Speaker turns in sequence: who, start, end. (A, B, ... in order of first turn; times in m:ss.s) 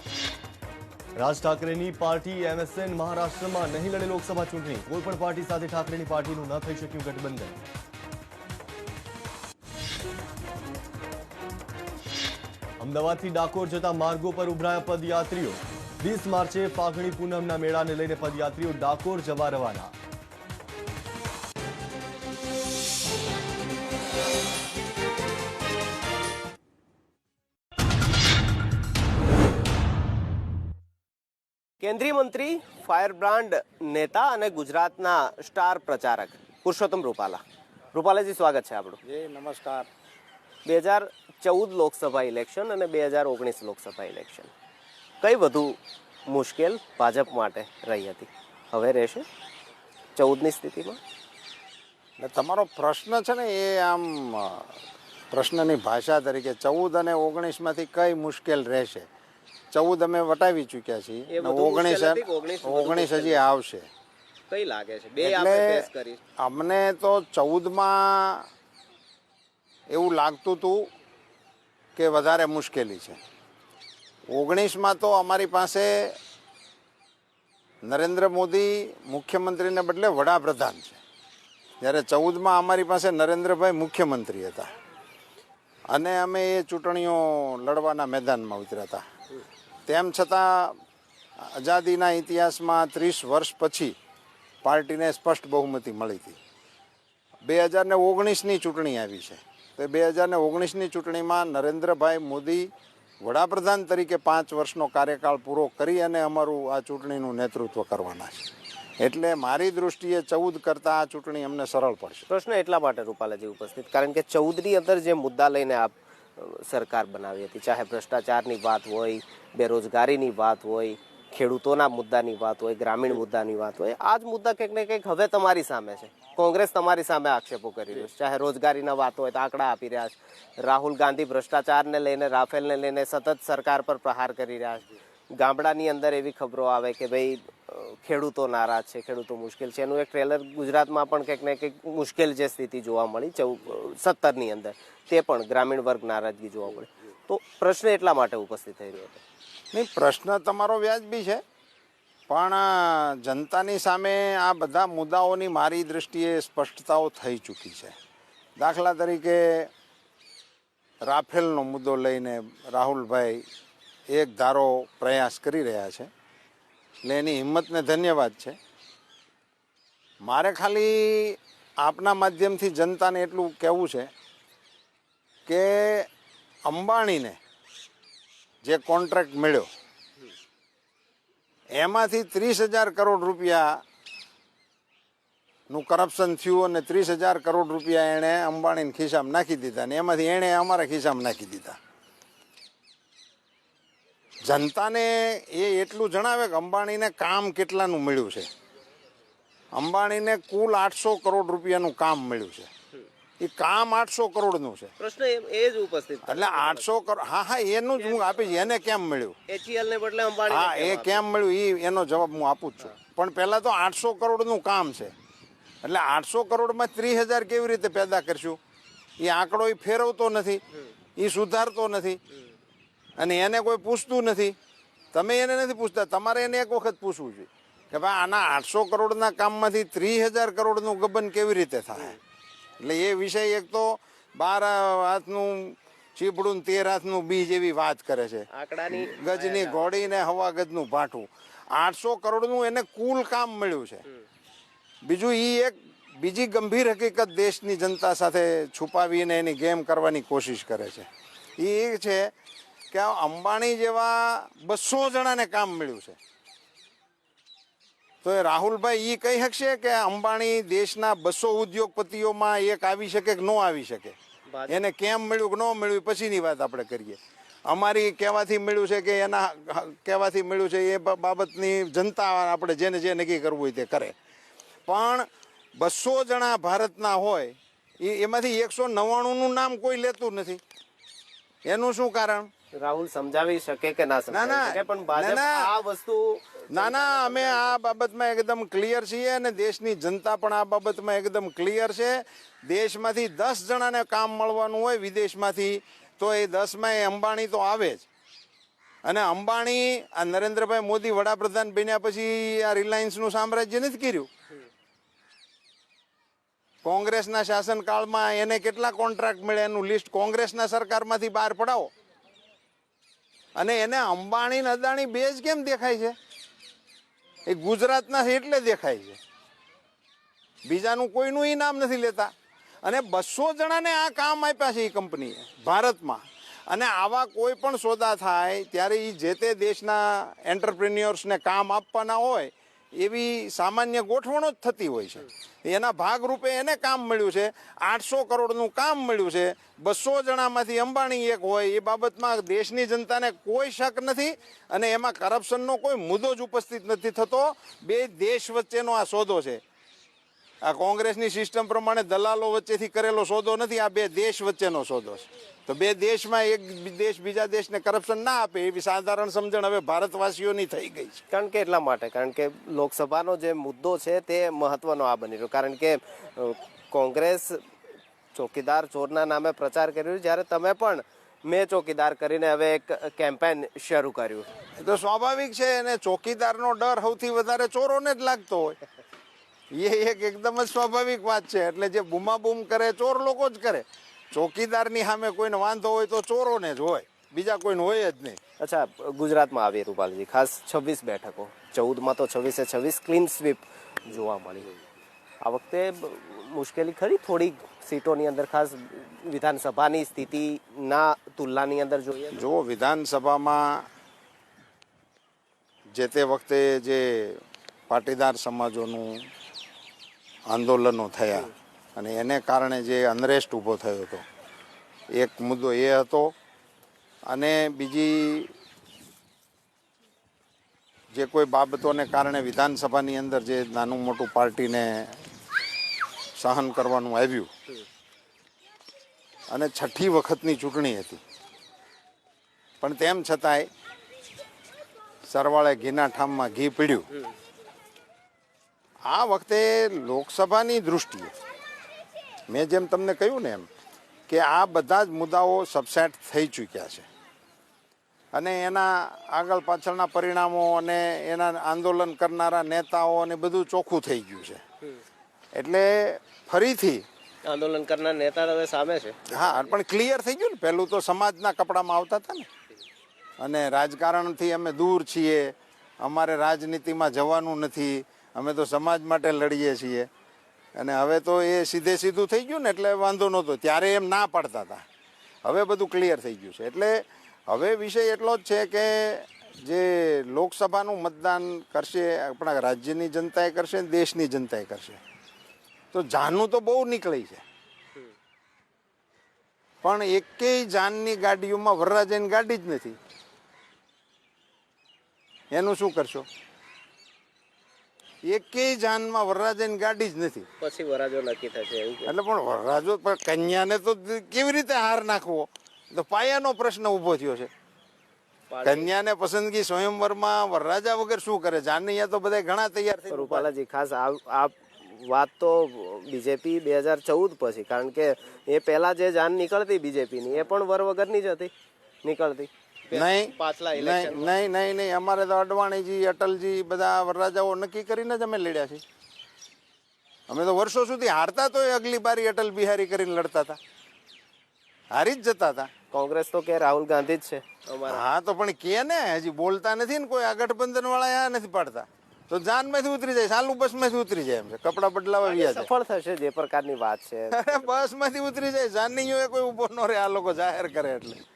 0:01.2-0:07.6 A
0:12.8-0:19.9 A
0:31.8-0:37.4 B
0:37.9-0:39.0 B
0:39.1-0:39.9 C
0:40.7-0:44.5 B
0:45.2-0:45.8 B
0:46.3-0:49.3 B
0:50.2-0:51.0 B
0:52.2-0:54.7 C
0:55.3-0:59.1 C
0:59.7-1:03.9 C
1:01.3-1:03.4 B
1:04.5-1:06.2 B
1:05.2-1:05.9 C
1:06.4-1:08.5 C
1:09.9-1:10.8 C
1:12.0-1:13.2 C
1:14.3-1:16.2 C
1:17.9-1:21.0 C
1:21.8-1:24.7 C
1:25.9-1:29.0 C
1:29.9-1:30.8 C
1:31.4-1:34.0 C
1:34.6-1:36.4 C
1:37.4-1:42.7 C
1:43.2-1:48.5 C
1:49.0-1:52.2 C
1:52.3-2:29.2 B
2:29.7-2:31.4 C
2:32.3-2:38.0 C
2:38.6-2:39.7 C
2:41.1-2:43.4 C
2:44.1-2:46.1 C
2:47.0-2:48.6 C
2:50.2-2:54.1 C
2:55.5-2:56.1 C
2:56.7-2:57.4 C
2:58.6-2:59.7 C
3:01.8-3:03.8 C
3:05.7-3:11.8 C
3:14.5-3:18.5 C
3:19.8-3:22.7 C
3:23.4-3:24.9 C
3:25.0-3:26.9 B
3:26.3-3:29.4 C
3:28.0-3:28.6 B
3:29.5-3:31.2 B
3:30.5-3:35.1 C
3:35.8-3:38.6 C
3:39.2-3:40.6 C
3:41.2-3:42.2 C
3:43.2-3:44.5 C
3:45.1-3:52.2 C
3:52.8-4:04.0 C
3:58.5-4:00.1 B
4:05.0-4:11.1 C
4:11.6-4:12.3 C
4:12.9-4:16.2 C
4:18.2-4:24.2 C
4:24.5-4:24.8 B
4:24.7-4:34.2 C
4:34.9-4:35.3 C
4:35.8-4:40.6 C
4:41.7-4:42.5 C
4:42.8-4:47.8 B
4:44.3-4:45.7 C
4:46.7-4:58.1 C
4:59.0-5:04.3 C
5:06.8-5:11.9 C
5:13.6-5:16.2 C
5:17.5-5:19.2 C
5:20.7-5:22.3 C
5:22.8-5:49.6 C
5:50.6-6:01.2 C
6:01.3-6:07.6 B
6:08.3-6:14.5 B
6:14.8-6:18.8 C
6:19.8-6:28.4 C
6:28.6-6:34.7 B
6:35.4-6:42.5 B
6:42.3-6:43.9 C
6:46.0-6:49.3 C
6:50.5-6:54.2 C
6:55.2-6:56.3 C
6:57.3-6:58.5 C
7:01.1-7:05.2 C
7:06.4-7:07.5 C
7:09.5-7:11.2 C
7:12.8-7:13.7 C
7:15.3-7:17.1 C
7:19.1-7:21.3 C
7:22.5-7:23.7 C
7:24.3-7:27.1 C
7:28.3-7:34.6 C
7:35.6-7:37.0 C
7:37.5-7:39.2 B
7:39.3-7:42.5 C
7:43.4-7:50.1 C
7:50.8-7:54.8 C
7:55.4-8:05.0 C
8:05.9-8:07.4 C
8:09.8-8:13.0 C
8:15.5-8:16.3 C
8:18.3-8:20.5 C
8:20.6-8:22.1 B
8:22.1-8:27.5 C
8:28.5-8:28.9 B
8:28.6-8:33.5 C
8:33.1-8:41.5 B
8:42.0-8:44.3 B
8:42.9-8:48.8 C
8:50.3-8:53.6 C
8:54.9-8:55.7 C
8:55.9-8:58.0 B
8:57.9-9:05.7 C
9:05.2-9:07.9 B
9:07.3-9:11.2 C